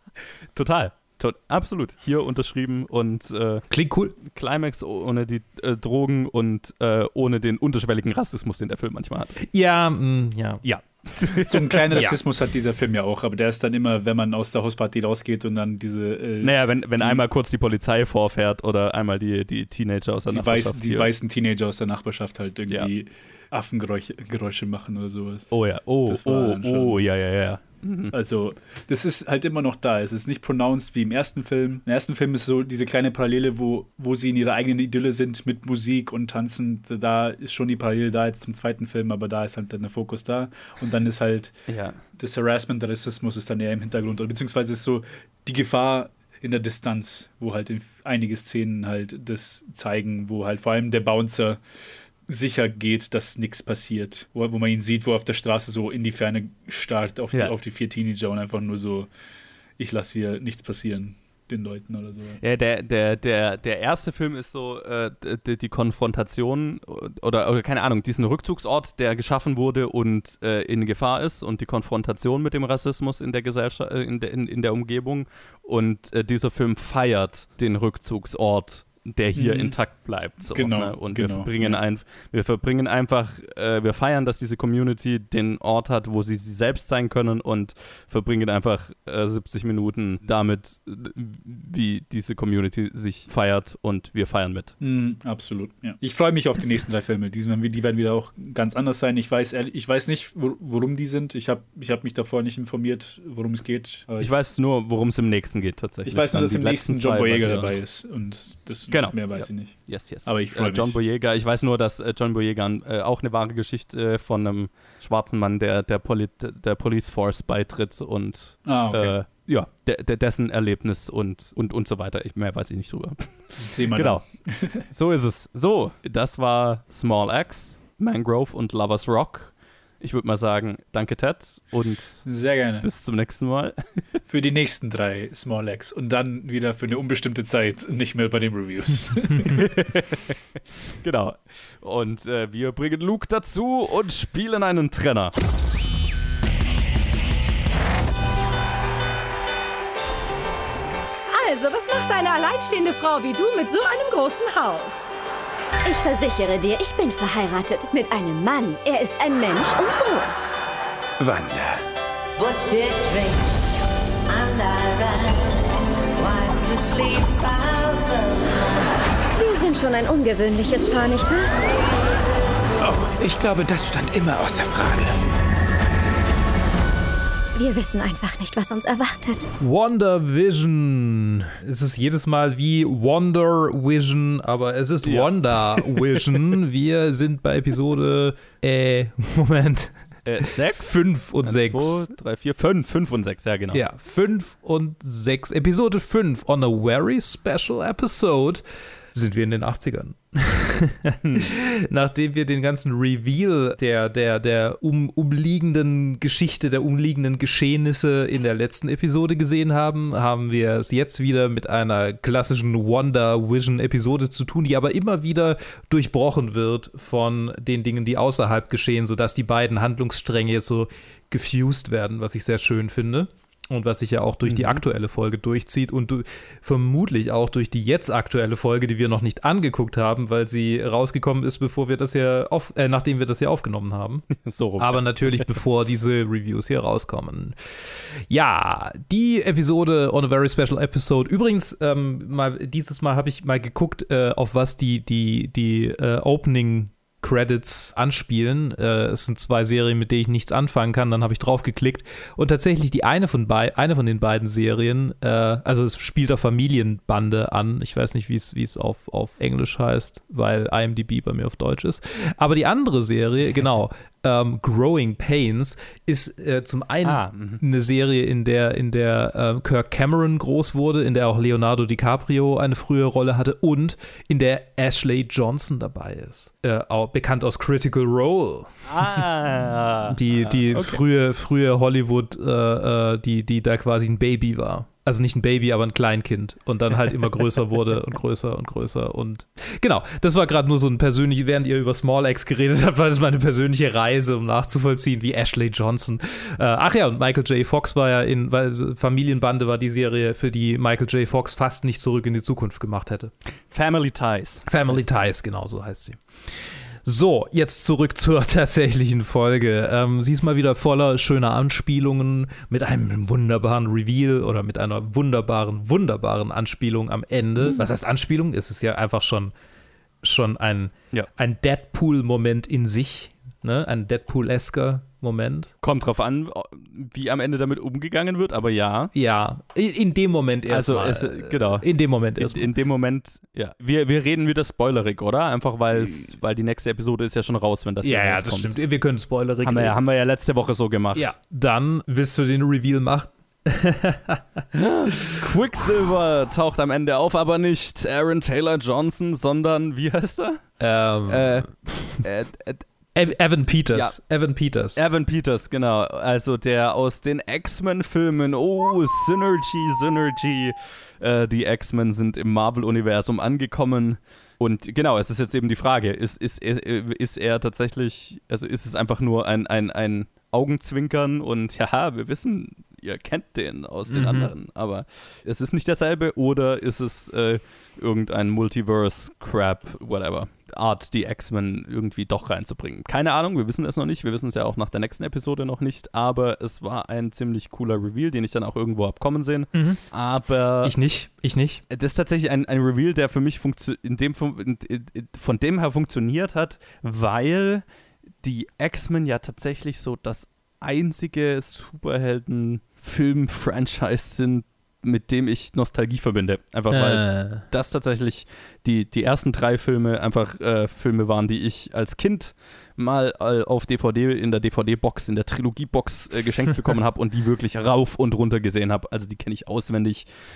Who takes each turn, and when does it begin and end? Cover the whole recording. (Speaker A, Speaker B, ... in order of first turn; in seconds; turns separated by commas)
Speaker A: 0.5-3.6, Speaker B: 3.7-4.1, Speaker A: 4.2-9.3, Speaker B: 9.4-10.6, Speaker A: 10.6-12.1, Speaker C: 11.4-17.2, Speaker A: 16.4-21.1, Speaker C: 20.3-27.0, Speaker A: 25.5-28.1, Speaker C: 28.1-41.5, Speaker A: 41.7-42.0, Speaker C: 42.1-51.6, Speaker C: 52.3-59.1, Speaker C: 59.8-62.4, Speaker A: 62.4-94.7, Speaker C: 79.3-79.8, Speaker C: 80.4-81.8, Speaker C: 94.8-104.3, Speaker A: 104.2-107.8, Speaker C: 106.0-111.0, Speaker A: 108.9-124.2, Speaker C: 118.6-119.2, Speaker C: 123.5-124.8, Speaker A: 124.8-132.3, Speaker C: 132.2-132.9, Speaker A: 132.8-133.8, Speaker C: 134.3-139.6, Speaker A: 139.4-140.3, Speaker A: 141.0-145.3, Speaker D: 151.3-155.1, Speaker E: 155.8-160.5, Speaker F: 161.2-161.8, Speaker G: 162.4-163.5, Speaker G: 164.3-168.6, Speaker E: 169.3-171.5, Speaker F: 172.8-175.2, Speaker E: 177.5-179.4, Speaker B: 179.6-189.9, Speaker A: 185.0-186.0, Speaker A: 190.2-193.8, Speaker B: 190.8-192.1, Speaker B: 193.7-198.6, Speaker B: 199.1-237.6, Speaker A: 201.2-201.5, Speaker A: 224.4-224.8, Speaker A: 234.4-235.5, Speaker B: 238.3-279.2, Speaker A: 267.0-267.6, Speaker A: 278.9-281.0, Speaker B: 280.1-303.3, Speaker A: 303.7-305.1, Speaker B: 304.6-306.2, Speaker B: 307.0-319.5, Speaker A: 317.6-317.9, Speaker B: 320.2-325.7, Speaker A: 325.8-329.1, Speaker B: 329.1-332.7, Speaker A: 330.7-338.8, Speaker B: 338.0-340.0, Speaker A: 339.6-341.3, Speaker B: 341.1-344.4, Speaker A: 344.7-352.9, Speaker B: 350.8-352.2, Speaker B: 353.1-355.0, Speaker A: 353.9-354.2, Speaker A: 354.9-390.9, Speaker B: 374.1-374.5, Speaker B: 389.7-390.0, Speaker B: 390.8-391.8, Speaker A: 391.9-397.8, Speaker A: 398.4-420.3, Speaker B: 406.9-407.6